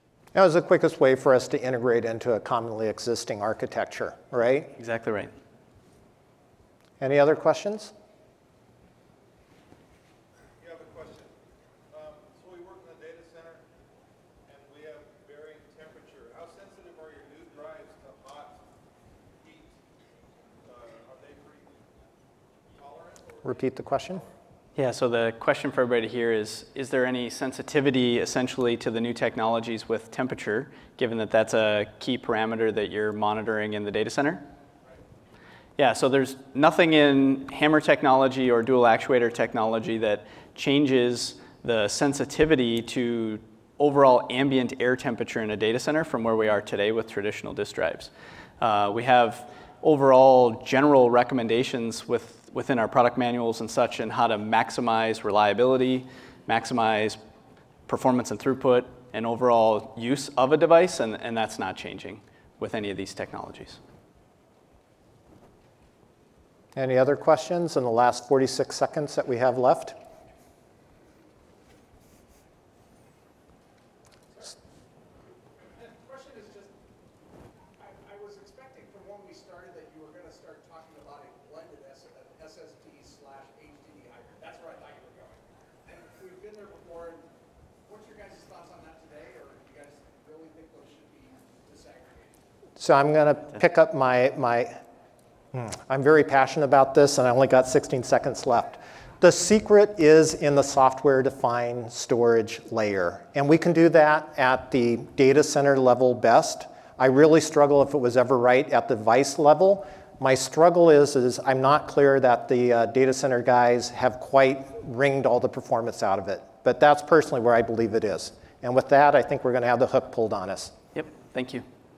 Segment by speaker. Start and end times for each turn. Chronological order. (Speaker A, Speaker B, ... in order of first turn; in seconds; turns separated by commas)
Speaker A: 0.3-4.7, Speaker B: 4.8-5.3, Speaker A: 7.0-7.9, Speaker C: 10.6-11.3, Speaker C: 11.9-13.7, Speaker C: 14.5-18.6, Speaker C: 19.4-19.8, Speaker C: 20.6-22.0, Speaker C: 22.7-24.3, Speaker A: 23.4-24.2, Speaker B: 24.8-34.4, Speaker B: 35.8-57.2, Speaker B: 57.9-63.8, Speaker A: 66.8-70.0, Speaker D: 75.8-76.7, Speaker D: 77.8-87.2, Speaker D: 87.8-92.4, Speaker A: 92.8-94.8, Speaker A: 95.5-120.7, Speaker B: 120.9-121.6